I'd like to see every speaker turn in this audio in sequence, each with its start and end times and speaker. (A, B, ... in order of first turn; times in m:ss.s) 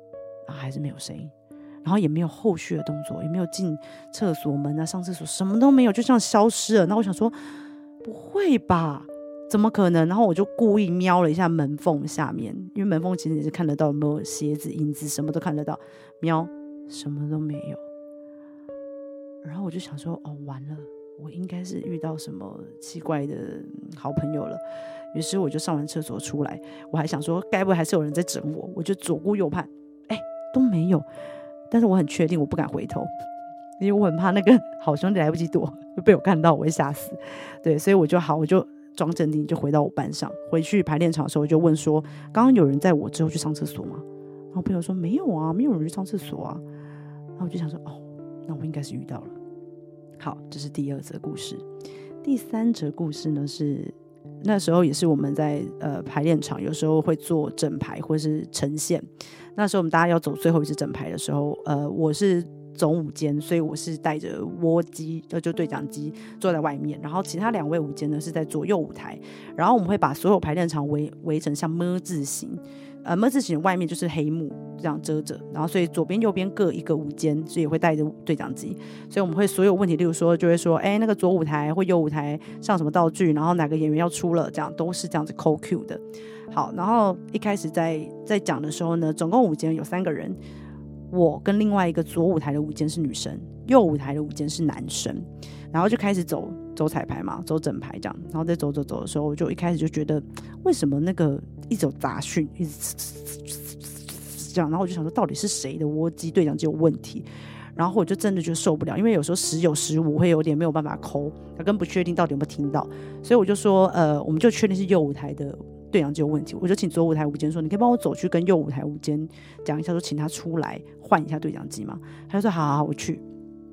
0:00.5-0:01.3 A
0:01.8-0:07.3 A
0:08.0-0:17.8 A
0:19.4-0:24.6 A
0:25.1-0:31.0 A
0:31.7-0:33.1 A
0:33.8-0:46.6 A
0:47.4-0:49.3 A
0:50.2-0:51.6 A
0:52.2-1:30.4 A
1:31.1-2:03.2 A